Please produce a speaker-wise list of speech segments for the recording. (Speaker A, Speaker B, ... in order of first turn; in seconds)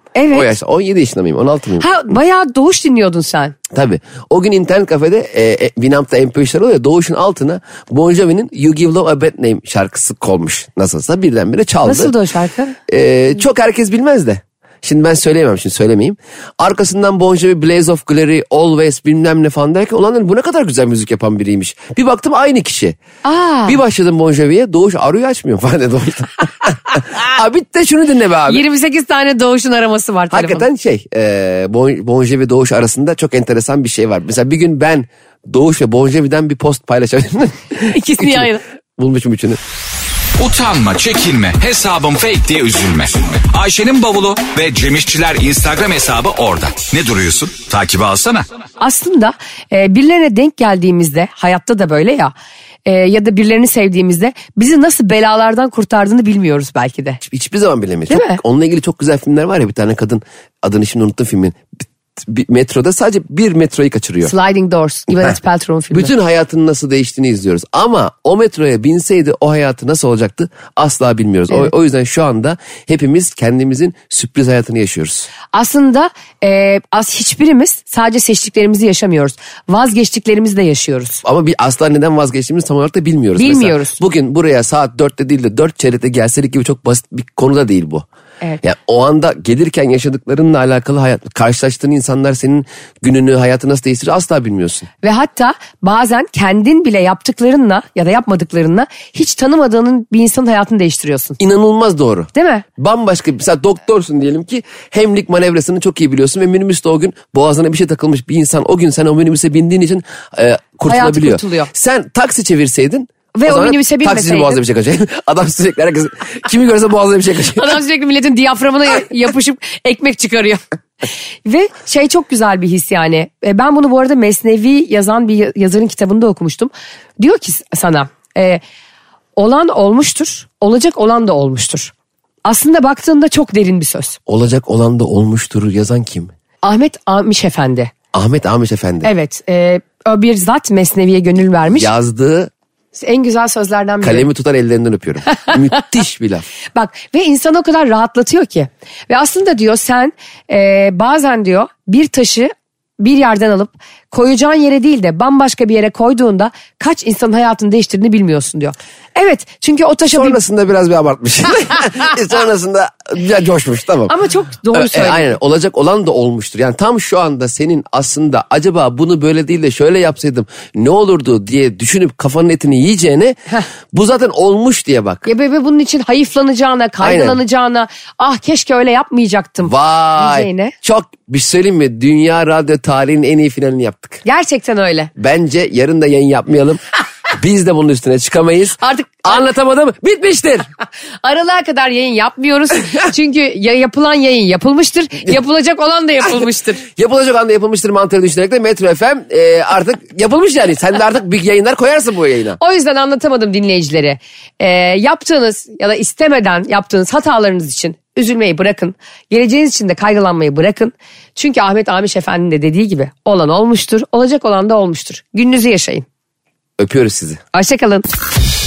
Speaker A: 0.1-0.5, 1.8-3.6, 11.8-12.8, 23.2-23.8, 28.5-30.7, 37.9-38.6, 48.8-52.3, 52.9-57.2, 58.1-58.4, 64.2-66.1, 75.5-81.2, 83.4-84.0, 95.0-101.4, 102.3-102.7, 110.9-111.7, 113.3-114.6, 117.5-120.6, 121.5-128.6, 129.4-131.9, 132.4-134.2, 136.6-137.9, 139.0-141.9, 142.9-144.3, 146.8-160.4, 164.1-165.3, 175.2-180.8, 184.2-185.1, 188.8-189.5, 191.2-196.8, 202.6-216.1, 217.5-218.1
Speaker B: 0.3-1.9, 3.7-12.1, 12.9-23.0, 23.7-28.6, 30.3-39.6, 57.2-61.6, 62.2-64.3, 65.9-75.3, 81.2-88.1, 88.6-94.9, 101.4-117.8, 134.3-136.3, 138.1-139.1, 141.7-142.5, 144.0-146.4, 160.1-164.1, 164.7-173.4, 173.9-175.3, 177.0-177.4, 179.7-184.2, 185.2-186.8, 187.3-190.7, 196.8-202.6, 216.8-217.4
Speaker C: 40.4-48.5